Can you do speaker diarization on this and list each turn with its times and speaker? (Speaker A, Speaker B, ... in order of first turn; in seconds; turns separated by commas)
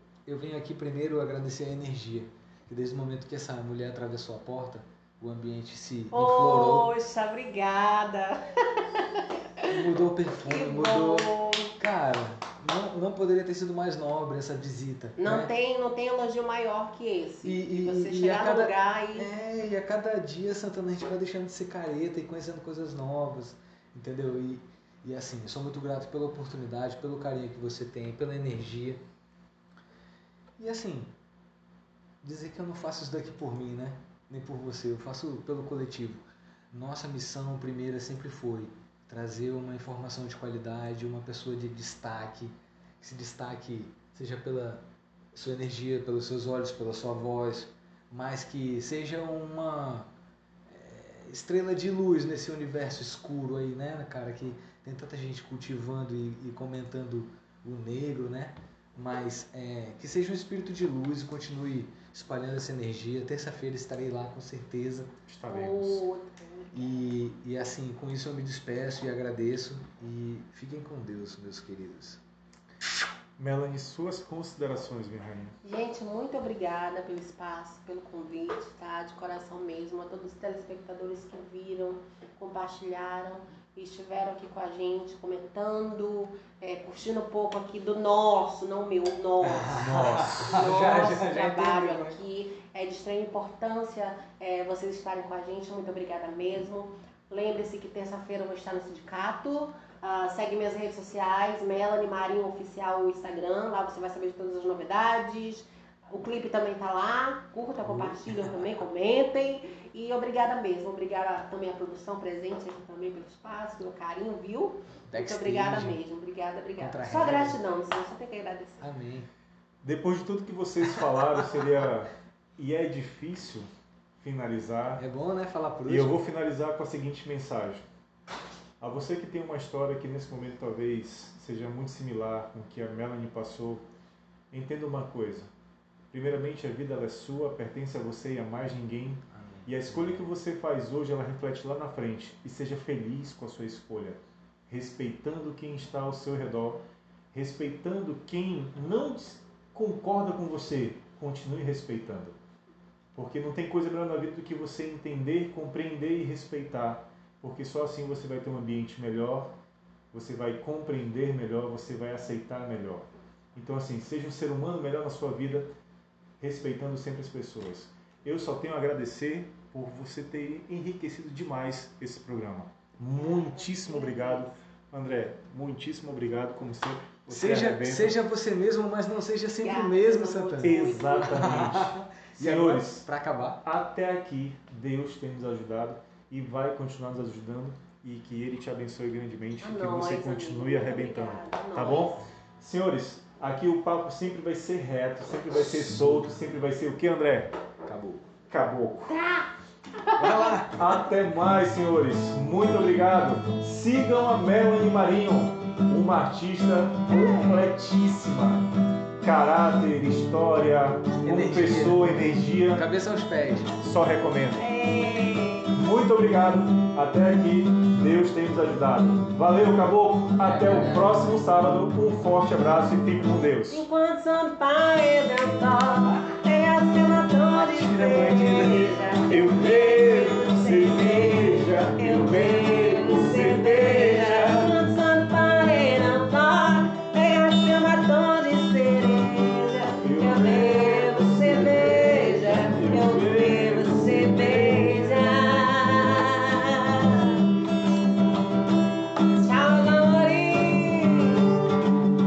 Speaker A: 0.2-6.9, Speaker B: 6.1-9.8, Speaker A: 9.7-15.5, Speaker B: 10.4-11.7, Speaker B: 15.2-19.3, Speaker A: 17.4-29.0, Speaker A: 30.6-31.1, Speaker A: 32.2-50.1, Speaker A: 50.7-65.2, Speaker C: 65.3-66.0, Speaker B: 65.5-67.0, Speaker A: 66.7-72.2, Speaker C: 73.4-75.5, Speaker B: 75.6-118.8, Speaker A: 89.4-92.2, Speaker C: 89.9-90.4, Speaker A: 107.8-108.8, Speaker A: 115.1-116.0, Speaker A: 116.8-117.6, Speaker A: 118.8-119.3, Speaker C: 119.8-123.7, Speaker C: 124.2-125.0, Speaker A: 125.0-126.2, Speaker C: 125.8-127.8, Speaker C: 128.8-133.8, Speaker C: 134.5-135.5, Speaker C: 136.1-152.3, Speaker A: 139.3-140.3, Speaker C: 153.1-159.5, Speaker C: 160.1-165.7, Speaker C: 166.4-178.2, Speaker B: 173.2-174.5, Speaker A: 177.3-183.6, Speaker B: 179.6-181.7, Speaker C: 180.6-183.1, Speaker C: 183.6-197.5, Speaker B: 189.6-192.2, Speaker A: 197.8-198.3, Speaker C: 198.5-199.2, Speaker B: 199.1-200.5, Speaker A: 200.2-200.9, Speaker C: 200.7-208.7, Speaker C: 209.2-212.8, Speaker A: 211.2-213.8, Speaker C: 213.8-214.7, Speaker B: 214.6-215.7, Speaker C: 215.7-223.8, Speaker A: 220.4-221.3, Speaker B: 223.7-247.6, Speaker C: 227.6-234.7, Speaker C: 240.0-245.4, Speaker B: 249.3-251.7